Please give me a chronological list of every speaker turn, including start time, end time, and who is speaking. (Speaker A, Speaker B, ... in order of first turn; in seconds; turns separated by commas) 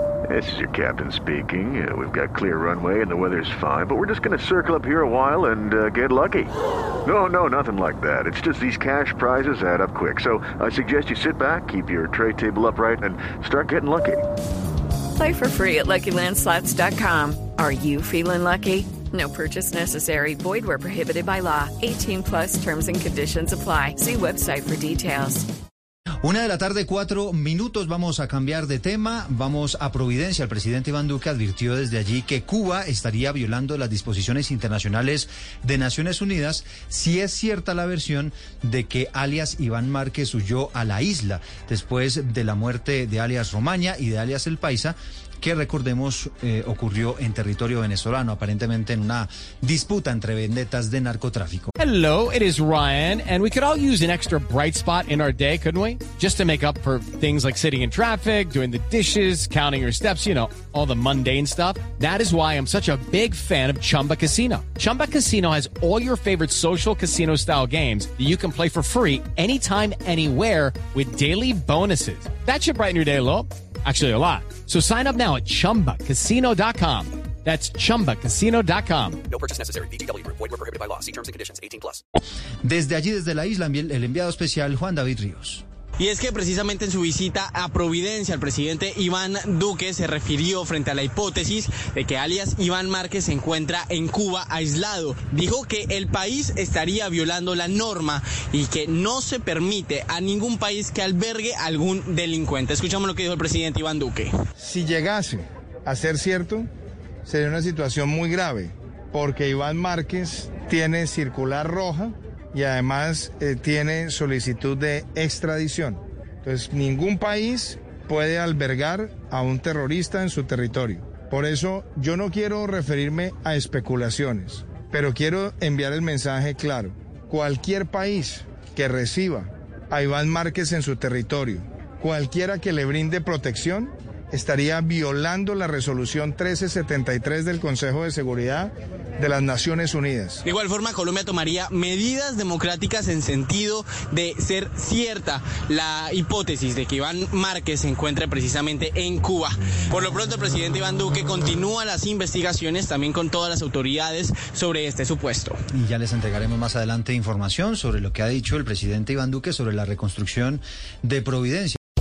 Speaker A: 0.3-6.5, Speaker A: 7.0-14.2, Speaker B: 15.1-25.4, Speaker C: 26.2-51.7, Speaker D: 51.8-79.2, Speaker E: 79.3-82.0, Speaker C: 82.6-85.6, Speaker F: 86.0-104.3, Speaker G: 104.6-106.7, Speaker G: 107.2-140.4, Speaker F: 140.4-155.6, Speaker C: 155.7-161.8